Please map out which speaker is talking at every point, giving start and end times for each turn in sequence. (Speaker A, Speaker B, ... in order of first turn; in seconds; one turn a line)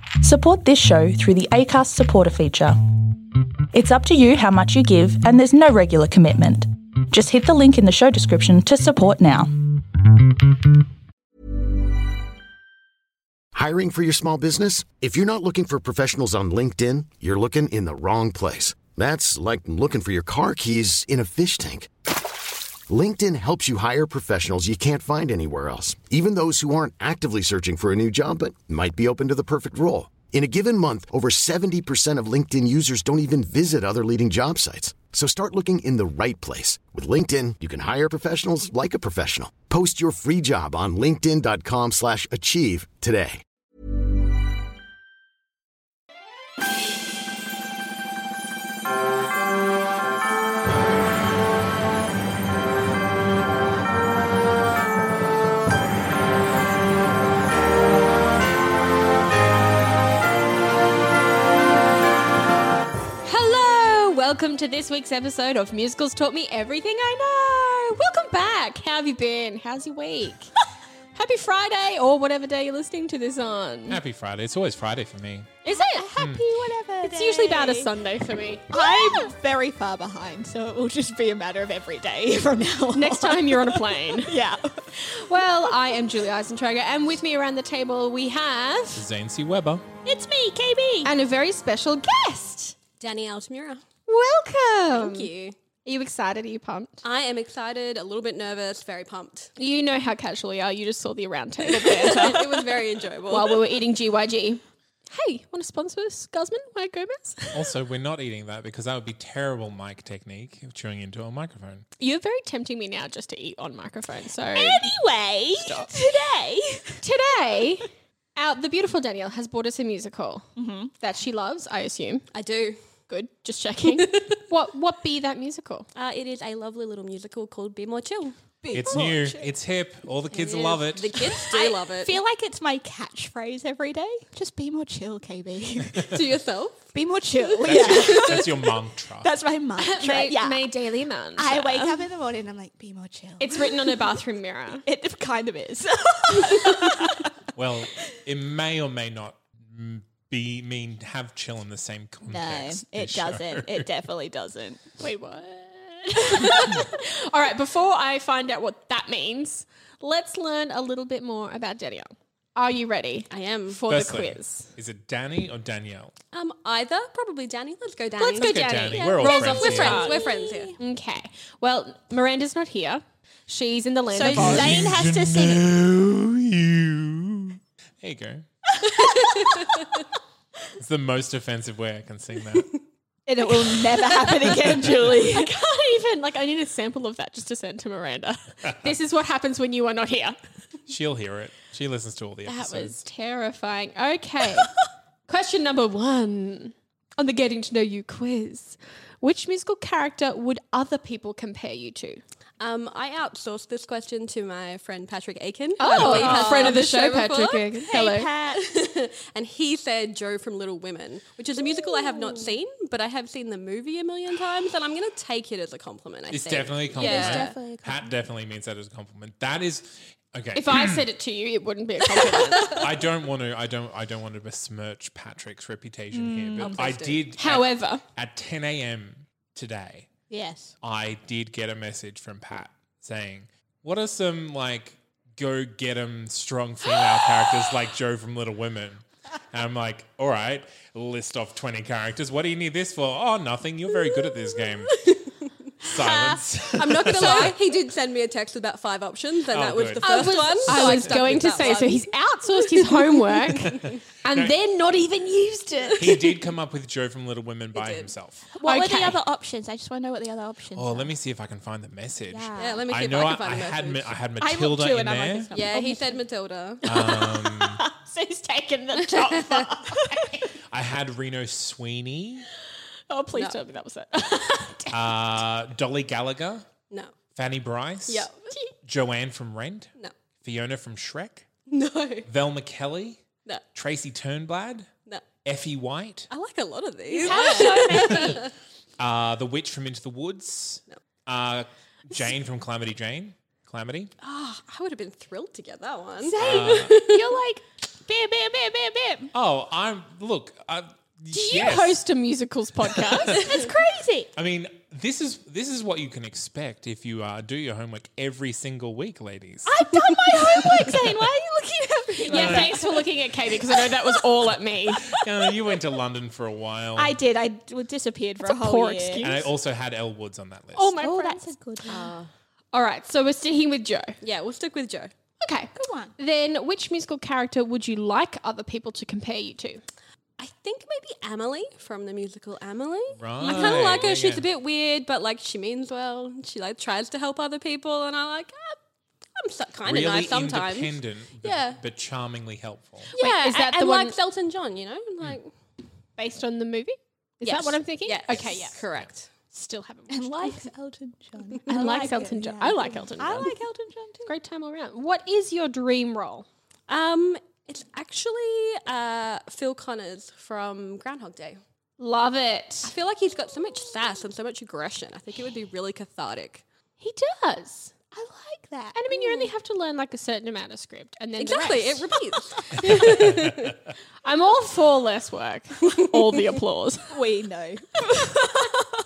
Speaker A: 0.2-10.6
Speaker B: 13.5-21.9
Speaker B: 22.9-43.4
Speaker C: 63.2-70.5
Speaker C: 71.2-74.0
Speaker D: 73.9-75.5
Speaker C: 75.6-76.1
Speaker E: 75.7-77.9
Speaker D: 76.2-76.5
Speaker C: 77.0-78.8
Speaker E: 78.7-85.7
Speaker C: 82.9-84.4
Speaker C: 84.9-89.0
Speaker D: 89.0-89.8
Speaker E: 90.0-91.1
Speaker C: 91.0-92.8
Speaker F: 93.0-93.8
Speaker C: 94.1-95.3
Speaker F: 94.9-95.6
Speaker C: 95.8-97.0
Speaker F: 97.0-99.5
Speaker C: 99.6-102.5
Speaker F: 101.7-103.6
Speaker C: 103.3-107.7
Speaker D: 107.5-111.8
Speaker C: 112.0-114.9
Speaker E: 114.5-117.0
Speaker C: 117.0-122.3
Speaker E: 120.6-120.9
Speaker F: 122.3-122.8
Speaker C: 123.1-125.9
Speaker F: 123.9-124.4
Speaker F: 126.0-128.4
Speaker C: 128.6-129.1
Speaker E: 128.6-129.5
Speaker D: 128.7-131.3
Speaker F: 130.3-132.2
Speaker E: 131.2-136.2
Speaker F: 136.1-136.9
Speaker E: 136.9-144.2
Speaker F: 137.5-138.6
Speaker D: 137.7-139.3
Speaker C: 139.8-142.1
Speaker C: 143.4-144.9
Speaker E: 144.8-147.3
Speaker D: 147.6-153.9
Speaker E: 152.3-154.9
Speaker C: 155.0-164.7
Speaker F: 163.3-163.8
Speaker D: 163.9-166.2
Speaker F: 166.3-170.8
Speaker C: 168.2-170.2
Speaker D: 168.4-170.1
Speaker E: 169.9-170.8
Speaker C: 170.8-174.8
Speaker E: 174.1-175.7
Speaker D: 174.3-178.5
Speaker E: 178.8-180.0
Speaker F: 179.0-179.6
Speaker D: 180.8-182.8
Speaker E: 183.3-185.5
Speaker C: 185.0-190.4
Speaker D: 190.9-193.0
Speaker C: 192.5-194.7
Speaker C: 195.3-202.2
Speaker F: 202.6-207.8
Speaker C: 205.8-208.3
Speaker E: 205.9-206.8
Speaker E: 207.9-208.7
Speaker F: 208.5-217.6
Speaker D: 216.3-221.1
Speaker E: 216.9-218.2
Speaker C: 220.6-222.8
Speaker D: 222.7-230.1
Speaker E: 226.1-227.1
Speaker F: 226.6-227.3
Speaker C: 227.4-228.0
Speaker E: 230.3-230.8
Speaker D: 230.8-245.2
Speaker F: 245.0-245.3
Speaker D: 245.8-247.6
Speaker E: 245.8-247.5
Speaker F: 246.7-253.0
Speaker D: 249.5-251.7
Speaker C: 250.0-256.4
Speaker F: 253.7-253.9
Speaker D: 253.7-254.5
Speaker D: 256.0-258.4
Speaker F: 257.7-258.1
Speaker E: 258.5-261.1
Speaker C: 258.6-259.2
Speaker D: 260.7-265.5
Speaker E: 262.3-262.9
Speaker F: 262.6-264.2
Speaker E: 264.4-266.2
Speaker F: 265.5-267.1
Speaker E: 266.8-270.6
Speaker D: 266.8-267.8
Speaker D: 270.7-272.5
Speaker C: 273.1-274.9
Speaker D: 274.9-276.7
Speaker D: 277.4-278.3
Speaker F: 278.1-278.5
Speaker D: 278.8-281.5
Speaker F: 281.7-282.3
Speaker D: 282.3-283.2
Speaker D: 283.8-284.9
Speaker D: 285.4-286.3
Speaker F: 286.3-288.5
Speaker C: 287.1-288.4
Speaker E: 287.2-288.4
Speaker D: 289.0-294.1
Speaker F: 294.2-297.3
Speaker E: 296.2-299.3
Speaker D: 296.4-297.0
Speaker D: 299.3-302.0
Speaker C: 301.3-303.5
Speaker D: 303.1-303.4
Speaker E: 303.3-304.3
Speaker D: 304.4-309.8
Speaker E: 309.6-313.0
Speaker C: 312.2-315.1
Speaker D: 312.3-312.7
Speaker E: 313.7-314.2
Speaker E: 315.1-315.8
Speaker D: 315.1-317.2
Speaker E: 316.9-319.4
Speaker C: 318.4-319.5
Speaker D: 319.2-321.0
Speaker C: 320.8-321.4
Speaker E: 321.0-322.1
Speaker F: 321.9-322.3
Speaker C: 322.7-324.2
Speaker F: 324.2-325.1
Speaker C: 325.4-329.8
Speaker E: 325.8-326.1
Speaker F: 330.4-338.8
Speaker D: 333.2-334.5
Speaker F: 339.4-341.8
Speaker D: 339.9-343.1
Speaker F: 343.1-345.5
Speaker C: 343.2-344.1
Speaker C: 346.2-348.8
Speaker F: 347.4-349.3
Speaker D: 348.3-349.1
Speaker C: 349.5-350.7
Speaker E: 350.1-354.3
Speaker C: 351.7-353.6
Speaker F: 351.7-352.3
Speaker C: 354.2-356.5
Speaker F: 356.9-361.6
Speaker C: 362.0-362.9
Speaker F: 362.8-366.6
Speaker C: 367.0-367.9
Speaker E: 368.1-369.0
Speaker C: 368.9-372.1
Speaker F: 369.1-369.5
Speaker F: 371.4-373.5
Speaker C: 372.7-377.1
Speaker D: 373.2-373.7
Speaker E: 377.1-378.9